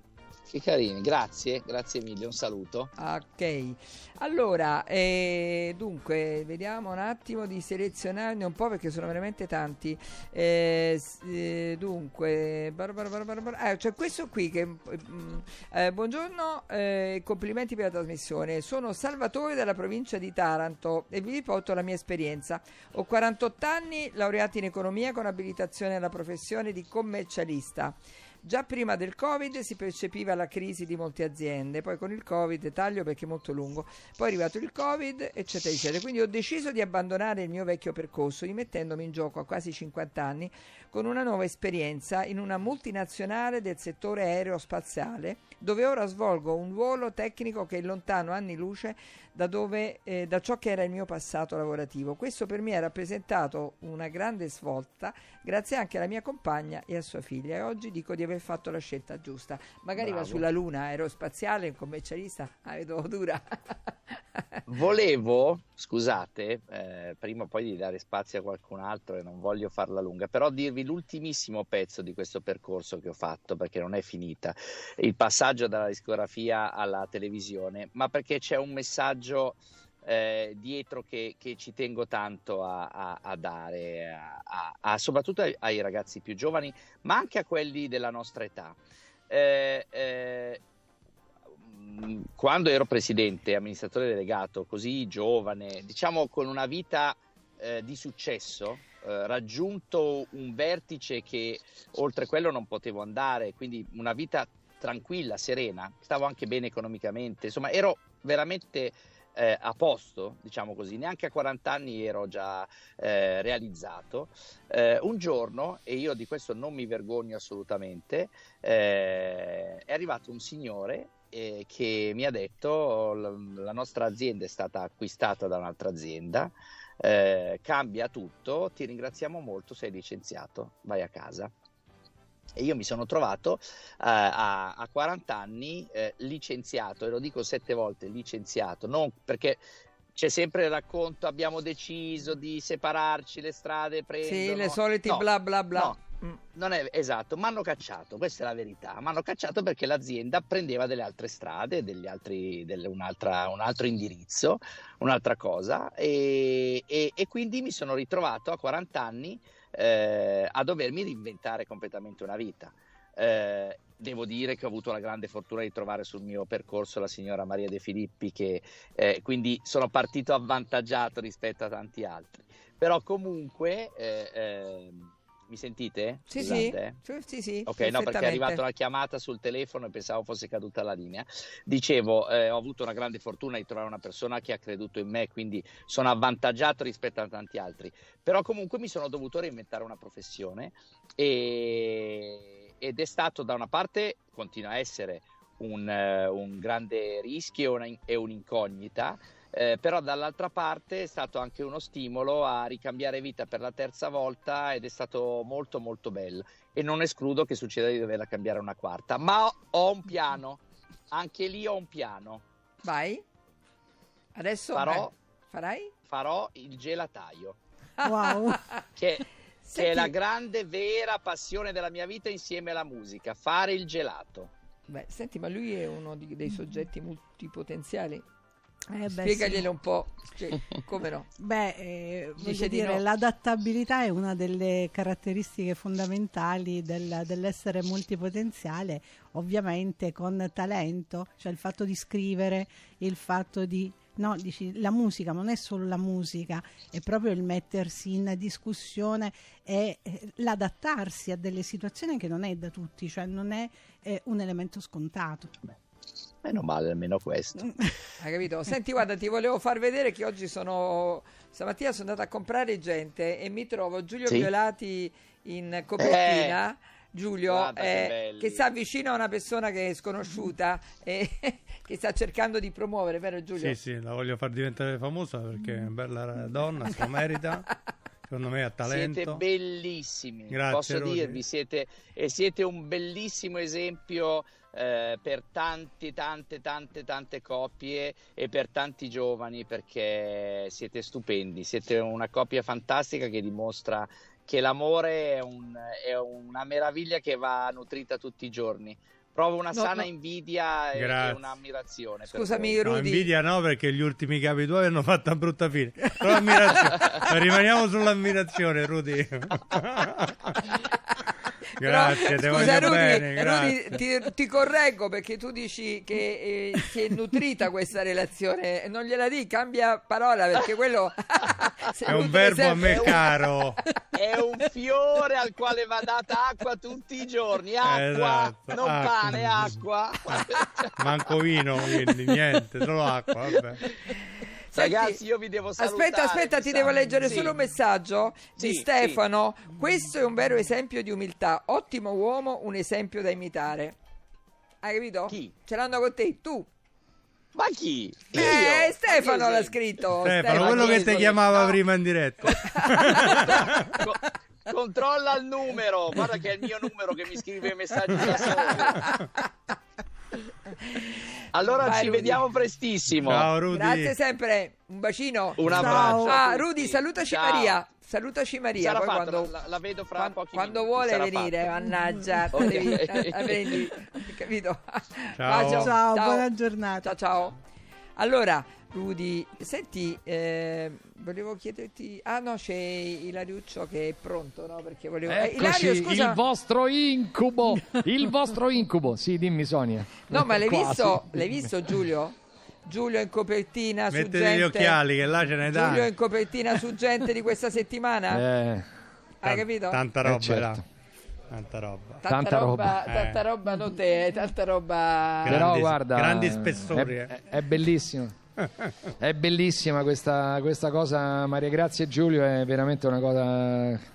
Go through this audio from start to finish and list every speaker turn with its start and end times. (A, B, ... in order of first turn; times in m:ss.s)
0:00.5-0:02.9 A
0:03.0-1:04.6 B
1:00.0-1:00.5 A
1:04.7-1:28.8 A
1:29.3-1:30.6 A
1:31.6-2:11.5 A
2:12.6-2:19.6 A
2:20.1-2:26.0 A
2:24.2-2:26.4 B
2:26.5-2:57.0 A
2:56.3-2:58.6 B
2:57.7-3:32.4 A
3:32.8-3:33.2 B
3:34.3-3:35.9 B
3:34.7-3:35.1 A
3:36.1-3:37.6 A
3:38.0-3:38.8 B
3:38.0-3:38.6 C
3:39.0-3:44.5 A
3:39.6-3:40.1 B
3:44.9-3:48.2 B
3:48.9-3:49.7 C
3:49.1-3:51.3 B
3:51.4-4:15.5 C
3:52.4-3:53.0 B
4:16.4-4:17.7 A
4:18.2-4:33.8 B
4:26.0-4:26.6 A
4:27.5-4:28.6 A
4:33.6-4:37.7 D
4:38.3-4:39.4 D
4:38.8-5:02.8 A
4:40.5-4:41.4 D
4:59.7-5:00.1 B
5:00.9-5:01.6 D
5:02.2-5:03.3 B
5:02.8-5:10.5 D
5:06.6-5:07.2 B
5:11.8-5:14.0 D
5:11.8-5:23.9 B
5:22.1-5:23.8 D
5:22.9-5:23.1 A
5:24.1-5:31.3 A
5:27.8-5:29.8 D
5:31.0-5:33.8 D
5:33.6-5:33.9 A
5:34.7-5:35.2 B
5:34.7-5:37.6 A
5:35.8-5:44.0 B
5:38.6-5:39.2 A
5:44.8-5:46.7 B
5:47.5-5:49.9 A
5:48.3-5:51.5 B
5:50.2-5:53.8 D
5:50.5-5:51.8 A
5:52.4-5:59.0 A
5:52.4-5:53.9 B
5:58.2-5:59.4 B
6:00.7-6:02.4 B
6:01.5-6:03.5 A
6:03.1-6:04.1 D
6:03.7-6:09.5 B
6:05.6-6:07.8 A
6:05.6-6:06.0 D
6:05.6-6:06.4 C
6:08.8-6:11.7 A
6:10.1-6:16.5 B
6:12.3-6:12.6 C
6:12.5-6:13.9 A
6:15.4-6:15.9 D
6:15.7-6:17.1 C
6:17.0-6:17.6 B
6:18.2-6:26.4 B
6:25.3-6:31.0 E
6:30.3-6:35.0 B
6:34.1-6:36.1 D
6:35.7-6:38.4 B
6:38.3-6:38.9 E
6:39.4-6:40.0 B
6:39.4-6:40.8 D
6:40.2-6:40.8 E
6:41.5-6:42.2 D
6:42.2-6:45.7 B
6:42.3-6:42.9 E
6:43.0-6:43.4 D
6:45.4-6:47.9 D
6:45.5-6:48.3 E
6:48.6-6:48.9 D
6:49.2-6:54.0 E